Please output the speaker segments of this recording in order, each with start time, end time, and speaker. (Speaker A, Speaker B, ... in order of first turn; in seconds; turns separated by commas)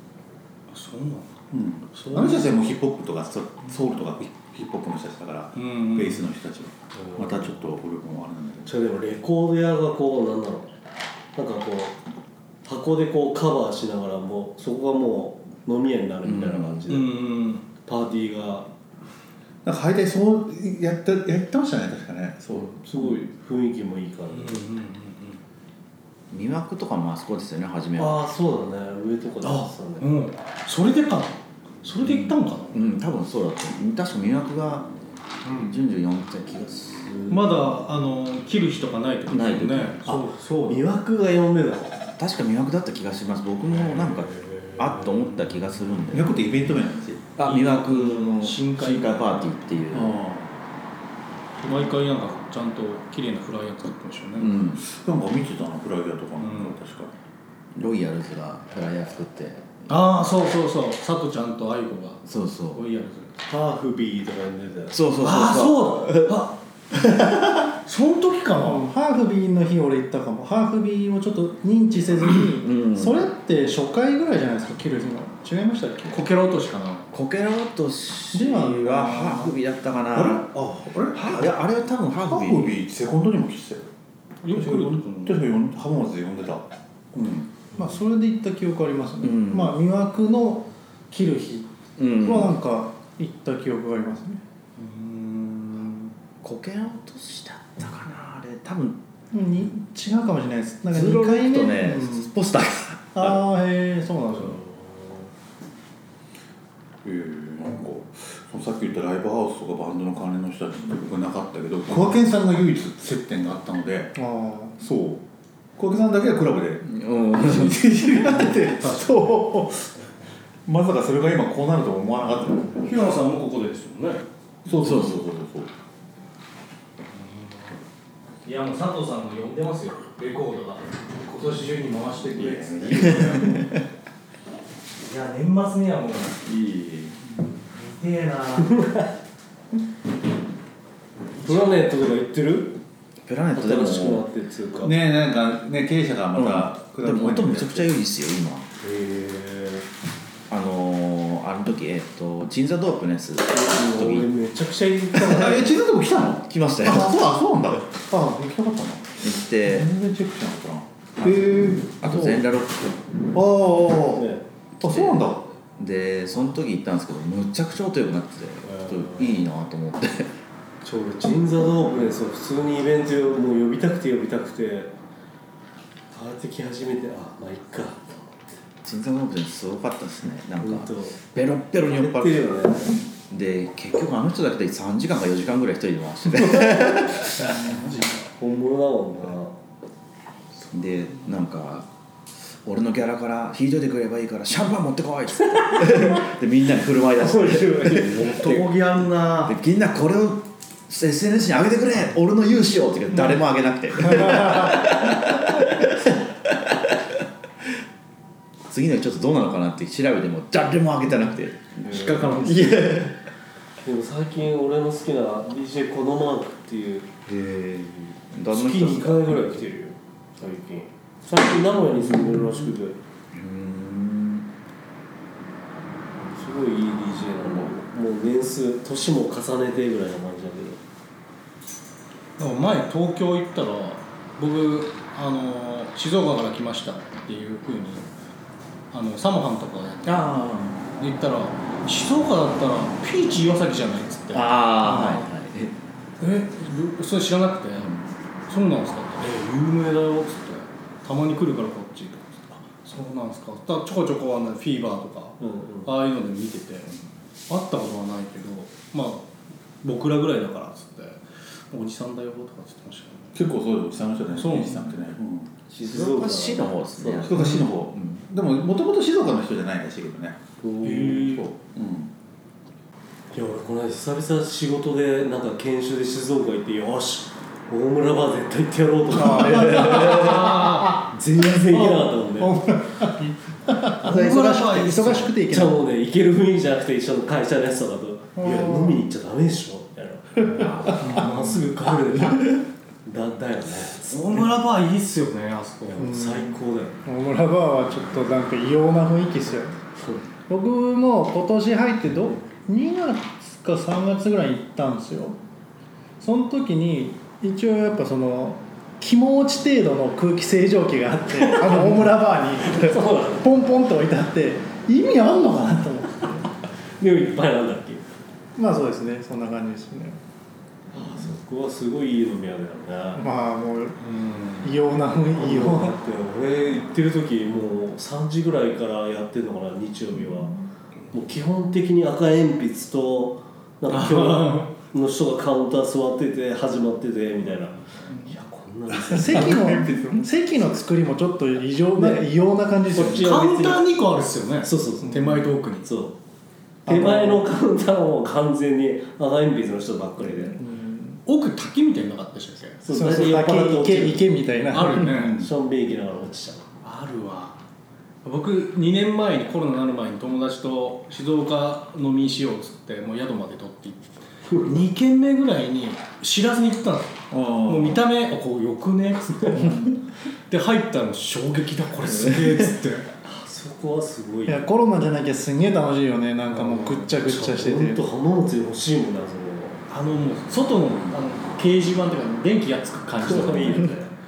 Speaker A: 0.7-1.4, Speaker B: 1.5-8.7, Speaker A: 1.9-2.5, Speaker A: 5.5-6.3, Speaker C: 7.0-7.5, Speaker C: 8.7-10.7, Speaker C: 11.3-11.9, Speaker C: 12.6-17.1, Speaker D: 16.2-16.8, Speaker A: 16.9-17.6, Speaker C: 17.8-18.7, Speaker B: 19.6-22.8, Speaker C: 22.7-24.6, Speaker A: 24.3-25.4, Speaker D: 26.3-28.2, Speaker C: 28.0-30.1, Speaker A: 29.4-32.9, Speaker D: 32.0-34.9, Speaker A: 35.4-35.8, Speaker D: 35.6-37.6, Speaker A: 37.3-40.9, Speaker D: 39.3-40.0, Speaker C: 40.7-42.0, Speaker D: 42.2-46.5, Speaker C: 43.9-45.1, Speaker B: 46.1-47.3, Speaker D: 47.4-50.2, Speaker A: 47.4-49.6, Speaker B: 49.9-50.5, Speaker A: 51.6-54.6, Speaker D: 54.4-54.8, Speaker B: 54.8-57.2, Speaker A: 56.4-56.8, Speaker D: 57.8-59.9, Speaker A: 59.9-63.3, Speaker D: 62.2-62.8, Speaker C: 63.5-65.0, Speaker D: 64.9-66.4, Speaker A: 65.2-66.5, Speaker D: 66.9-67.7, Speaker A: 67.8-68.9, Speaker E: 68.6-76.2, Speaker D: 72.5-73.2, Speaker A: 76.1-77.1, Speaker D: 77.1-80.5, Speaker E: 78.3-79.5, Speaker B: 80.1-81.6, Speaker D: 81.1-82.8, Speaker B: 82.2-83.9, Speaker A: 84.4-85.5, Speaker B: 84.5-87.5, Speaker E: 87.8-94.4, Speaker D: 89.2-89.8, Speaker D: 92.0-92.5, Speaker A: 94.8-96.1, Speaker D: 96.4-99.0, Speaker E: 99.3-102.3, Speaker D: 100.9-103.4, Speaker E: 103.1-104.6, Speaker B: 107.0-114.2, Speaker E: 114.2-114.8, Speaker B: 114.8-115.2, Speaker B: 115.8-119.9, Speaker D: 116.8-118.4, Speaker A: 118.6-119.4, Speaker B: 120.7-123.0, Speaker A: 122.8-124.2, Speaker B: 124.7-125.7, Speaker D: 124.8-125.2, Speaker A: 127.2-127.7, Speaker A: 128.4-133.6, Speaker B: 132.3-133.6, Speaker D: 133.0-133.8, Speaker A: 135.0-136.5, Speaker B: 136.6-137.1, Speaker A: 137.7-138.7, Speaker C: 138.7-139.1, Speaker C: 141.4-142.8, Speaker D: 143.2-144.2, Speaker C: 143.5-144.9, Speaker B: 144.8-147.9, Speaker D: 146.3-148.7, Speaker C: 148.8-149.8, Speaker D: 150.5-154.3, Speaker C: 153.5-155.8, Speaker B: 155.2-162.4, Speaker D: 156.5-157.3, Speaker D: 159.2-159.9, Speaker D: 162.0-163.0, Speaker B: 163.3-164.3, Speaker C: 164.2-164.4, Speaker D: 164.8-170.3, Speaker B: 164.8-165.5, Speaker C: 168.7-169.4, Speaker C: 170.8-174.9, Speaker C: 176.1-178.3, Speaker D: 178.8-182.4, Speaker C: 180.6-181.2, Speaker C: 181.8-183.0, Speaker D: 183.3-187.9, Speaker A: 187.4-188.2, Speaker C: 188.3-189.5, Speaker D: 190.7-191.9, Speaker D: 192.6-198.7, Speaker C: 195.6-196.2, Speaker C: 197.2-199.5, Speaker D: 199.4-207.2, Speaker D: 208.7-213.2, Speaker A: 211.8-212.9, Speaker C: 211.9-212.4, Speaker C: 213.8-217.1, Speaker D: 217.2-219.6, Speaker C: 218.5-223.0, Speaker D: 223.3-224.5, Speaker C: 226.3-230.8, Speaker A: 232.4-238.1, Speaker A: 238.9-240.3, Speaker D: 240.0-240.8, Speaker A: 241.0-245.3, Speaker D: 244.3-245.7, Speaker A: 246.2-256.9, Speaker D: 247.8-248.1, Speaker C: 255.4-255.9, Speaker A: 257.5-259.3, Speaker A: 259.8-263.4, Speaker B: 263.3-265.5, Speaker A: 264.3-264.9, Speaker C: 265.7-267.4, Speaker D: 265.7-268.2, Speaker B: 267.2-270.4, Speaker C: 270.6-271.2, Speaker A: 270.8-271.5, Speaker B: 271.1-272.1, Speaker C: 273.3-282.6, Speaker E: 279.1-281.0, Speaker A: 279.3-281.0, Speaker E: 281.7-285.8, Speaker A: 284.0-285.3, Speaker C: 285.5-294.1, Speaker E: 288.4-289.0, Speaker D: 290.6-290.9, Speaker A: 291.0-291.4, Speaker A: 294.0-296.1, Speaker C: 295.9-296.9, Speaker E: 296.0-299.8, Speaker E: 300.5-305.4, Speaker E: 306.2-316.5, Speaker C: 311.4-312.1, Speaker C: 312.6-313.5, Speaker C: 317.0-318.0, Speaker E: 318.6-320.2, Speaker C: 320.9-323.3, Speaker E: 323.2-324.0, Speaker A: 324.0-324.7, Speaker E: 324.6-325.9, Speaker C: 325.3-330.5, Speaker C: 331.1-339.9, Speaker A: 333.9-334.7, Speaker E: 339.1-343.4, Speaker B: 339.3-340.2, Speaker C: 342.0-342.3, Speaker C: 342.9-343.8, Speaker A: 343.2-345.9, Speaker C: 344.6-346.1, Speaker E: 346.9-347.4, Speaker C: 346.9-350.6, Speaker E: 350.5-351.2, Speaker A: 351.2-352.8, Speaker C: 352.8-354.3, Speaker E: 352.9-355.4, Speaker A: 354.7-355.4, Speaker C: 355.3-356.7, Speaker A: 356.8-357.6, Speaker A: 358.2-369.9, Speaker B: 367.3-368.0, Speaker A: 370.5-373.1, Speaker C: 373.2-374.6, Speaker E: 374.5-378.0, Speaker C: 376.5-379.8, Speaker A: 379.9-383.9, Speaker C: 383.2-384.1